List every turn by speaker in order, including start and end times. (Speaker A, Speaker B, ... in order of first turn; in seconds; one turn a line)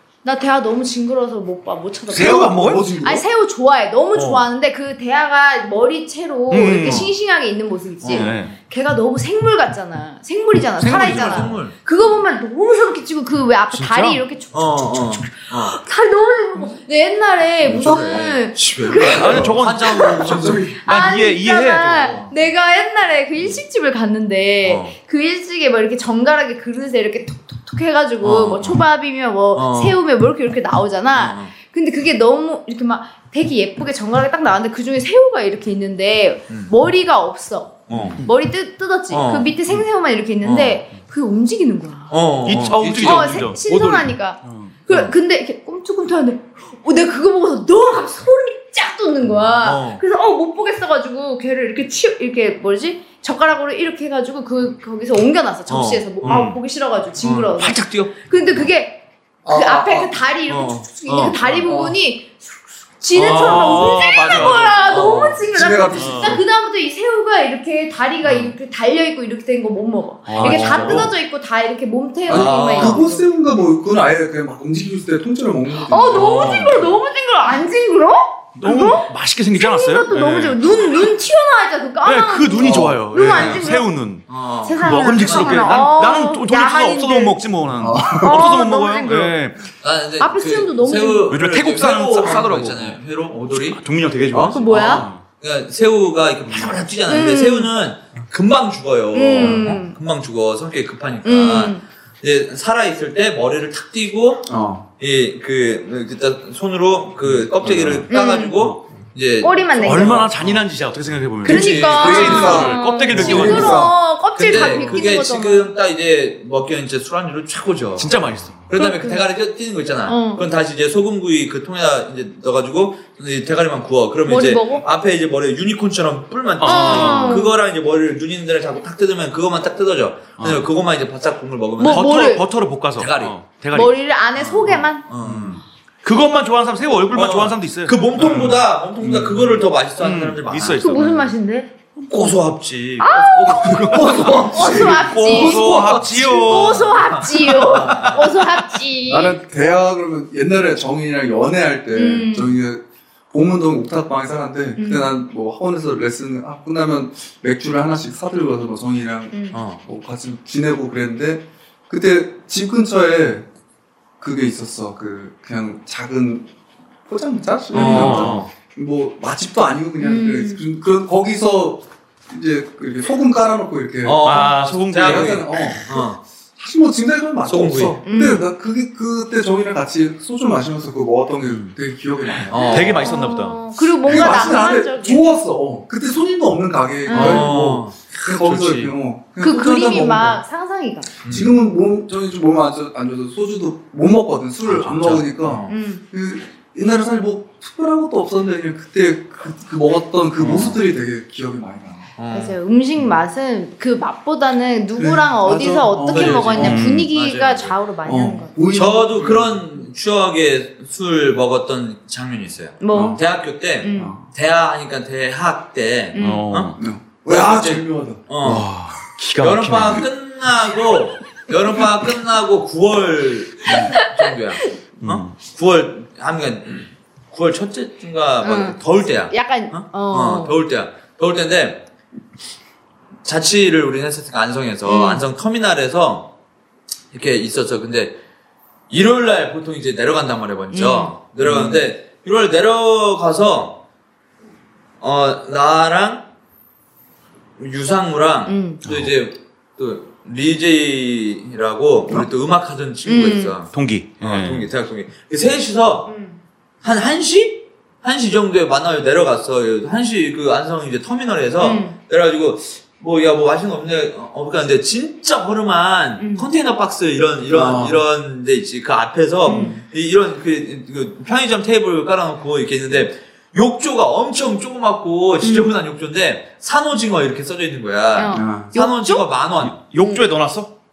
Speaker A: 0.2-20.2
Speaker B: 2.1-2.9
Speaker C: 2.1-3.2
Speaker B: 4.1-4.4
Speaker B: 6.5-7.1
Speaker D: 8.0-8.5
Speaker B: 8.1-8.5
Speaker B: 10.8-11.6
Speaker D: 10.8-11.7
Speaker B: 13.7-14.2
Speaker D: 14.5-15.8
Speaker D: 17.6-20.7
Speaker B: 19.0-22.2
Speaker C: 19.1-19.6
Speaker C: 20.2-20.7
Speaker A: 20.7-42.2
Speaker D: 21.9-22.3
Speaker D: 24.6-24.9
Speaker D: 28.2-28.8
Speaker D: 29.5-30.0
Speaker D: 31.1-31.5
Speaker D: 37.9-38.2
Speaker B: 37.9-38.3
Speaker D: 39.1-39.8
Speaker D: 40.4-40.8
Speaker D: 42.1-43.5
Speaker B: 42.5-44.7
Speaker A: 42.9-73.3
Speaker D: 49.6-50.0
Speaker D: 55.7-56.5
Speaker B: 56.2-56.6
Speaker D: 57.2-58.1
Speaker C: 59.4-60.2
Speaker D: 60.5-61.6
Speaker C: 61.6-62.0
Speaker B: 63.1-65.4
Speaker D: 65.0-65.3
Speaker C: 65.5-66.4
Speaker B: 66.0-66.4
Speaker B: 70.3-71.1
Speaker D: 70.4-71.1
Speaker C: 72.3-76.5
Speaker D: 72.3-73.0
Speaker A: 75.9-83.9
Speaker B: 76.0-76.9
Speaker B: 78.6-81.1
Speaker B: 82.0-84.2
Speaker C: 82.6-83.0
Speaker D: 84.3-85.7
Speaker A: 84.6-87.4
Speaker B: 84.8-89.6
Speaker C: 87.8-88.4
Speaker A: 88.1-89.3
Speaker D: 89.8-93.8
Speaker A: 90.2-91.4
Speaker B: 91.3-93.0
Speaker B: 93.7-95.2
Speaker C: 94.3-94.9
Speaker D: 94.3-104.5
Speaker A: 94.6-95.1
Speaker A: 97.1-97.7
Speaker A: 99.1-100.0
Speaker C: 99.4-99.8
Speaker A: 101.2-101.8
Speaker C: 104.5-104.8
Speaker D: 105.0-110.6
Speaker C: 107.3-108.1
Speaker A: 108.1-108.5
Speaker A: 109.4-110.3
Speaker B: 109.8-113.9
Speaker D: 111.4-112.7
Speaker A: 111.4-115.7
Speaker C: 112.0-113.9
Speaker D: 114.3-132.4
Speaker B: 118.0-118.6
Speaker A: 118.7-119.2
Speaker A: 120.1-120.4
Speaker A: 124.3-124.8
Speaker B: 126.6-127.5
Speaker A: 126.6-127.5
Speaker B: 130.4-130.7
Speaker A: 131.8-132.4
Speaker B: 131.8-138.5
Speaker D: 132.9-133.4
Speaker A: 133.7-135.1
Speaker D: 134.4-135.6
Speaker C: 135.2-135.6
Speaker D: 137.1-141.1
Speaker C: 138.2-139.6
Speaker B: 140.0-141.3
Speaker A: 140.8-141.7
Speaker D: 142.1-144.4
Speaker A: 143.0-149.4
Speaker B: 143.1-147.0
Speaker C: 143.8-145.2
Speaker D: 145.2-148.3
Speaker C: 149.1-163.4
Speaker A: 151.9-152.6
Speaker A: 154.8-155.1
Speaker A: 159.3-159.6
Speaker D: 159.5-159.8
Speaker C: 164.2-166.5
Speaker C: 167.1-183.0
Speaker B: 167.7-168.4
Speaker D: 167.7-168.5
Speaker A: 170.0-170.6
Speaker D: 174.0-176.2
Speaker B: 174.2-175.8
Speaker D: 177.5-178.0
Speaker A: 178.1-178.4
Speaker B: 181.4-181.8
Speaker B: 182.3-183.6
Speaker D: 182.5-183.1
Speaker A: 182.9-185.2
Speaker C: 184.0-190.4
Speaker A: 187.1-187.5
Speaker D: 187.1-188.9
Speaker A: 189.4-191.1
Speaker D: 191.2-191.6
Speaker C: 191.3-202.1
Speaker D: 194.6-195.8
Speaker A: 195.7-196.0
Speaker D: 200.4-200.8
Speaker D: 202.2-202.6
Speaker A: 202.3-208.6
Speaker C: 204.9-206.8
Speaker D: 206.1-207.7
Speaker B: 206.6-207.1
Speaker C: 208.1-209.6
Speaker D: 208.7-216.7
Speaker A: 212.8-213.2
Speaker C: 212.9-213.2
Speaker A: 213.8-214.1
Speaker C: 213.9-214.2
Speaker A: 216.1-216.4
Speaker B: 216.2-216.8
Speaker C: 216.8-218.6
Speaker D: 217.2-218.7
Speaker B: 218.4-220.0
Speaker D: 219.4-231.8
Speaker A: 223.7-224.2
Speaker B: 225.0-225.3
Speaker A: 228.4-230.5
Speaker D: 233.2-236.3
Speaker A: 234.8-235.2
Speaker D: 237.1-238.1
Speaker D: 238.9-243.8
Speaker A: 240.7-241.1
Speaker C: 241.4-241.8
Speaker D: 245.0-246.2
Speaker D: 247.6-256.1
Speaker A: 248.5-248.8
Speaker B: 248.8-249.1
Speaker A: 253.1-253.5
Speaker B: 253.7-254.7
Speaker A: 256.1-256.4
Speaker D: 256.8-279.8
Speaker A: 261.6-261.9
Speaker A: 266.2-266.5
Speaker C: 267.5-268.0
Speaker A: 269.4-269.8
Speaker C: 269.5-269.8
Speaker A: 275.4-275.7
Speaker A: 278.1-279.3
Speaker C: 278.3-278.7
Speaker B: 279.6-280.7